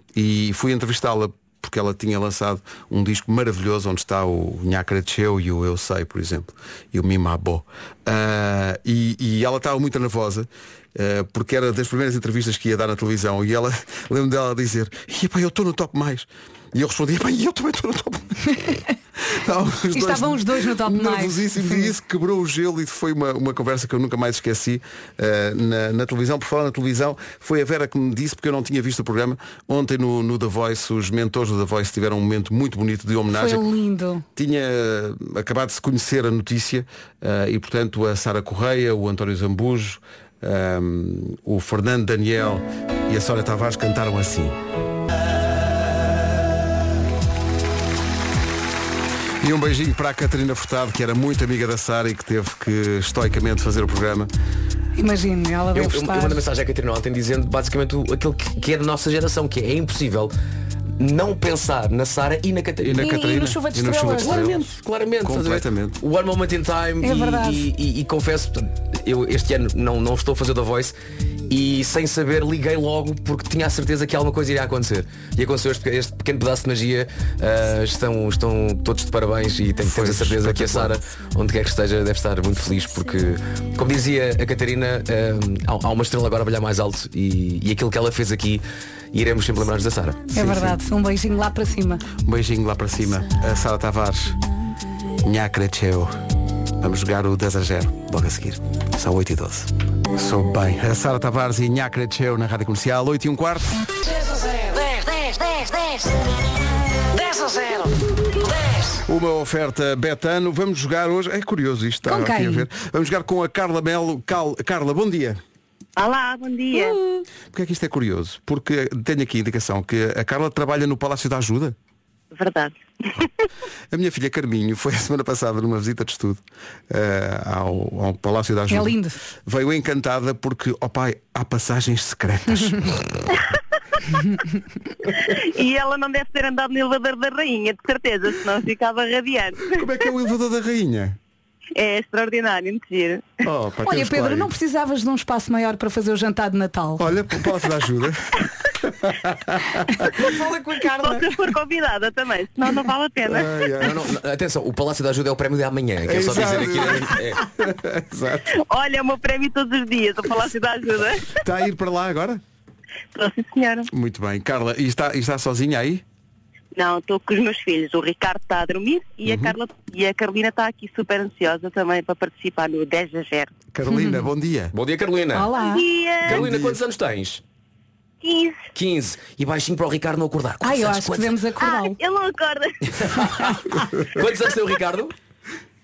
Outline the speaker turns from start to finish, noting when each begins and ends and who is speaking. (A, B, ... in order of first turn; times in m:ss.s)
0:00.1-0:18.5 A
0:19.3-0:33.6 A
0:19.9-0:21.9 B
0:33.3-0:34.2 B
0:34.4-0:44.6 A
0:49.4-0:54.3 A
0:55.0-0:56.4 B
0:55.7-1:00.3 C
1:01.0-1:03.1 C
1:02.8-1:06.0 A
1:03.0-1:04.4 B
1:04.2-1:10.9 C
1:07.0-1:07.7 B
1:11.5-1:30.2 C
1:19.8-1:21.0 A
1:30.3-1:30.8 A
1:30.3-1:32.1 B
1:32.2-1:34.4 A
1:35.2-1:36.2 A
1:36.8-1:43.8 A
1:44.0-1:46.2 D
1:47.1-1:49.0 D
1:49.1-1:55.4 A
1:52.0-1:52.6 B
1:56.0-1:57.0 E
1:57.5-2:01.8 A
2:02.3-2:03.3 E
2:03.9-2:13.0 A
2:08.7-2:09.2 B
2:15.1-2:19.8 E
2:19.7-2:21.2 A
2:21.7-2:23.3 E
2:23.4-2:24.5 A
2:23.8-2:27.0 B
2:27.0-2:30.1 A
2:30.0-2:31.3 B
2:30.9-2:33.6 E
2:33.3-2:34.0 A
2:33.8-2:37.4 C
2:36.0-2:38.5 A
2:38.5-2:41.3 E
2:41.4-2:42.4 A
2:43.1-2:43.9 E
2:43.9-2:46.0 A
2:46.7-2:53.5 E
2:49.2-2:49.6 A
2:53.7-2:54.7 A
2:53.9-2:54.3 B
2:54.7-2:55.5 C
2:55.3-2:55.9 B
2:55.6-2:56.4 E
2:56.2-2:57.4 C
2:56.3-2:56.8 A
2:58.2-2:58.6 E
2:58.7-3:01.4 C
3:00.6-3:02.0 B
3:01.6-3:03.6 E
3:02.8-3:03.6 C
3:04.1-3:05.1 C